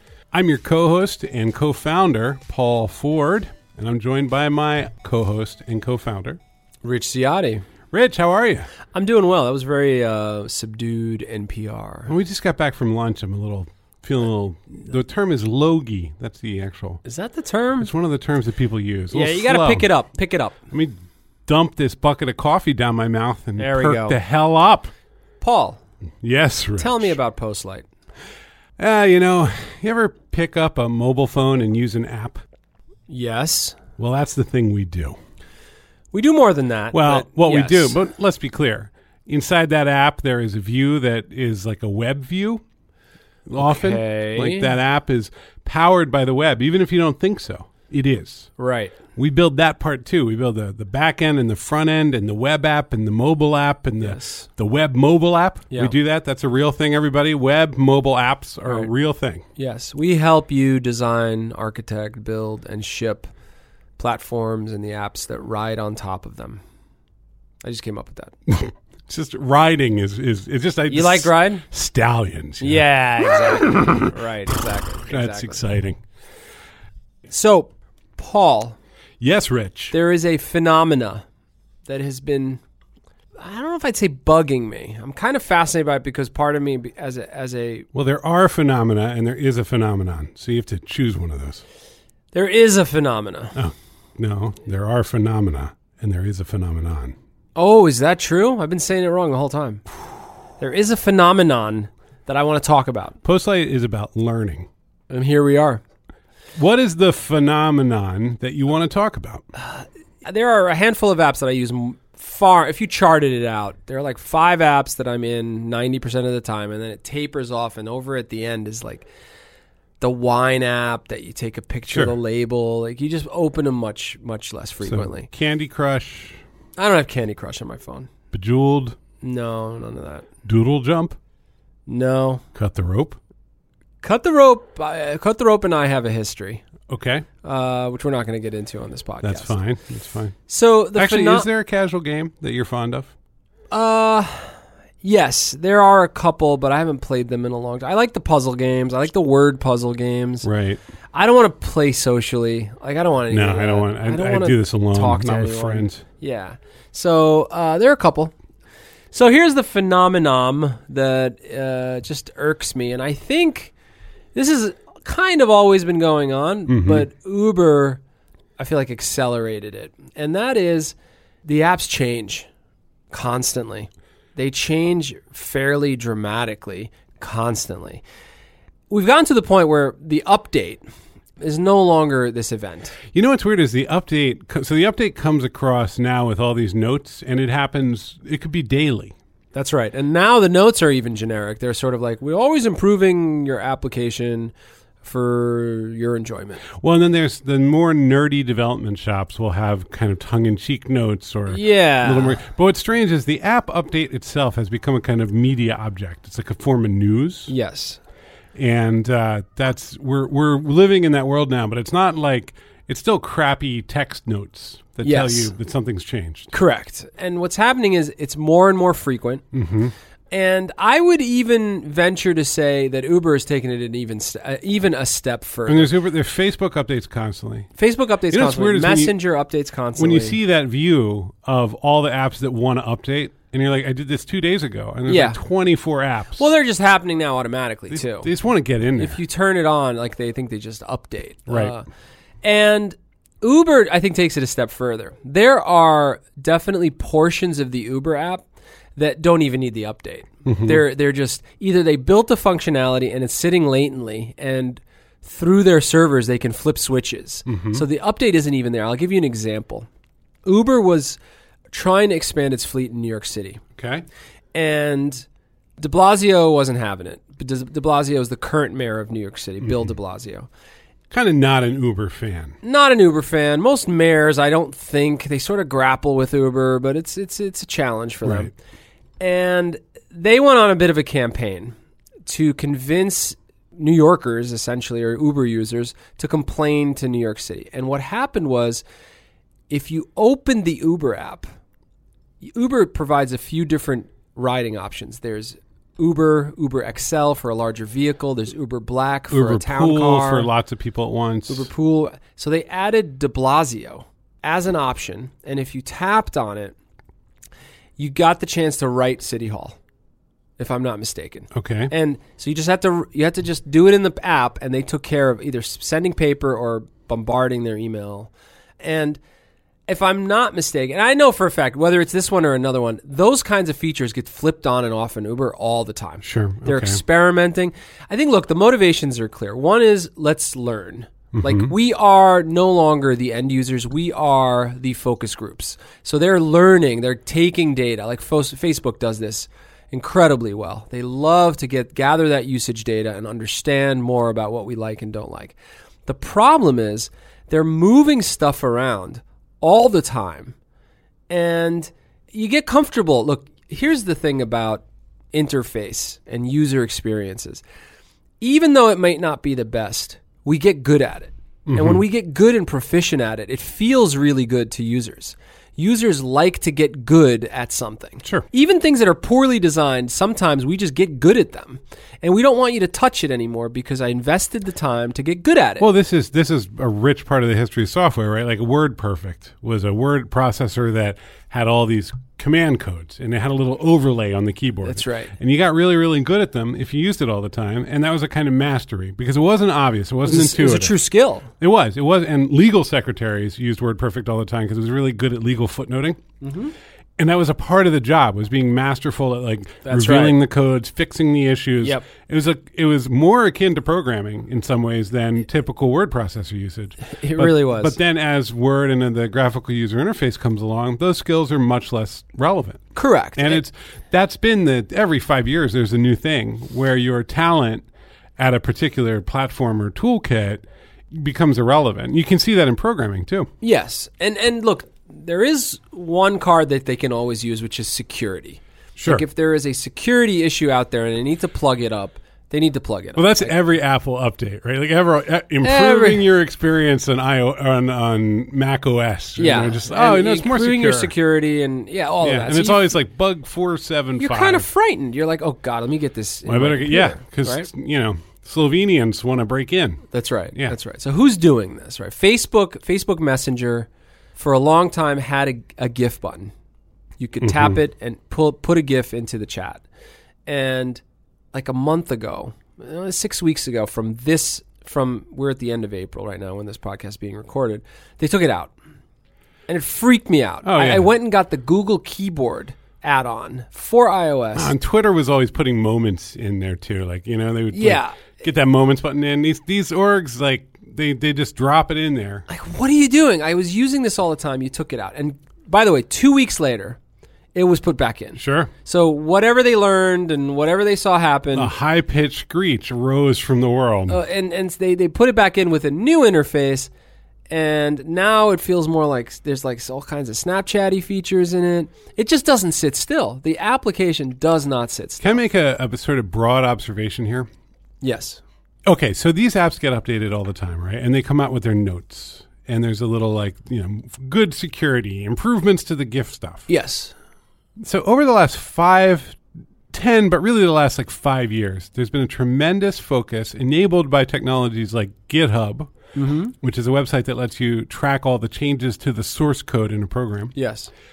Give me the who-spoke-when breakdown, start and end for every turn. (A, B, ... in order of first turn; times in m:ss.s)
0:00.3-0:06.4 A
0:06.8-0:07.6 B
0:07.9-0:08.7 A
0:08.9-0:12.1 B
0:12.1-0:17.0 A
0:17.0-0:17.9 B
0:17.8-0:19.9 A
0:19.1-0:20.6 B
0:21.5-0:24.9 A
0:23.6-0:24.2 B
0:25.4-0:25.8 B
0:26.2-0:27.2 A
0:26.8-0:27.8 B
0:28.8-0:32.4 A
0:33.1-0:33.8 B
0:34.0-0:35.2 A
0:36.1-0:38.0 B
0:36.9-0:42.6 A
0:43.5-0:48.5 A
0:43.6-0:44.7 B
0:48.6-0:48.9 B
0:49.2-0:59.4 A
0:54.0-0:54.5 B
0:59.6-1:03.3 B
1:04.0-1:06.6 B
1:07.6-1:08.3 B
1:08.5-1:16.0 A
1:10.9-1:11.6 B
1:12.6-1:15.6 B
1:17.3-1:18.8 B
1:19.2-1:19.9 A
1:19.9-1:21.2 B
1:21.9-1:22.6 B
1:23.4-1:27.8 B
1:27.9-1:31.6 A
1:32.3-1:33.6 B
1:33.5-1:37.1 A
1:37.6-1:39.8 B
1:40.6-1:43.2 B
1:43.2-1:44.7 A
1:45.1-1:45.8 B
1:46.6-1:49.4 A
1:49.6-1:59.1 B
2:00.0-2:05.3 B
2:04.8-2:06.4 A
2:06.8-2:08.1 B
2:08.3-2:09.0 A
2:09.2-2:10.3 B
2:10.4-2:11.2 A
2:11.9-2:12.4 B
2:12.5-2:13.2 A
2:14.0-2:16.6 B
2:16.9-2:17.2 A
2:17.4-2:19.6 B
2:19.2-2:20.3 A
2:20.5-2:21.5 B
2:21.0-2:23.1 A
2:23.7-2:30.5 B
2:30.4-2:30.8 A
2:31.1-2:38.3 B
2:33.3-2:36.0 A
2:39.1-2:43.7 B
2:44.3-2:48.0 B
2:46.7-2:47.1 A
2:48.6-2:52.5 B
2:53.1-2:58.0 B
2:58.9-3:00.8 B
3:01.4-3:03.0 B
3:03.1-3:09.1 A
3:09.5-3:16.6 B
3:16.7-3:27.5 A
3:21.5-3:22.4 B
3:27.5-3:28.0 B
3:28.6-3:36.5 A
3:35.0-3:35.5 B
3:36.5-3:39.4 B
3:39.5-3:39.9 A
3:40.3-3:45.9 B
3:45.7-3:47.7 A
3:47.8-3:50.4 B
3:48.3-3:49.1 A
3:50.0-3:56.5 A
3:55.1-3:55.4 B
3:56.4-3:58.3 B
3:57.9-3:59.2 A
3:59.0-4:01.8 B
4:01.5-4:01.7 A
4:02.4-4:08.4 B
4:09.0-4:19.9 B
4:10.4-4:10.8 A
4:17.5-4:17.8 A
4:20.4-4:21.2 B
4:21.7-4:23.6 B
4:23.8-4:24.0 A
4:24.5-4:25.2 B
4:25.8-4:30.5 B
4:31.1-4:32.6 A
4:32.6-4:38.5 B
4:38.2-4:38.5 A
4:39.2-4:41.7 B
4:42.3-4:48.8 B
4:49.7-4:51.4 B
4:52.4-5:00.5 B
4:59.3-5:01.7 A
5:01.5-5:06.7 B
5:08.0-5:09.8 B
5:10.6-5:19.2 B
5:11.5-5:11.9 A
5:19.9-5:50.5 B
5:26.2-5:27.0 A
5:31.3-5:31.7 A
5:51.3-5:57.6 B
5:58.4-6:15.9 B
6:01.7-6:02.0 A
6:15.8-6:30.9 A
6:24.8-6:25.3 B
6:30.2-6:31.5 B
6:31.6-6:36.2 A
6:36.4-6:36.7 B
6:37.2-6:52.8 A
6:39.8-6:40.4 B
6:47.1-6:48.0 B
6:52.9-6:53.6 B
6:53.4-6:57.8 A
6:58.4-7:03.5 A
7:03.6-7:13.5 B
7:09.0-7:09.2 A
7:13.2-7:21.1 A
7:15.6-7:16.2 B
7:19.4-7:22.9 B
7:22.2-7:24.7 A
7:24.2-7:27.7 B
7:26.4-7:30.7 A
7:30.1-7:36.5 B
7:37.2-7:39.8 B
7:37.4-7:37.8 A
7:40.4-7:41.0 B
7:41.5-7:48.7 B
7:49.7-7:54.7 B
7:50.6-7:51.1 A
7:54.5-8:02.4 A
7:57.7-7:58.2 B
8:02.5-8:07.0 B
8:07.5-8:11.7 B
8:08.4-8:08.7 A
8:11.5-8:14.2 A
8:14.1-8:16.9 B
8:17.5-8:25.4 B
8:25.2-8:27.5 A
8:28.0-8:28.4 B
8:28.8-8:36.7 A
8:36.7-8:37.1 B
8:37.8-8:39.4 A
8:39.9-8:45.9 A
8:46.1-8:46.5 B
8:46.5-8:50.5 A
8:50.5-8:50.9 B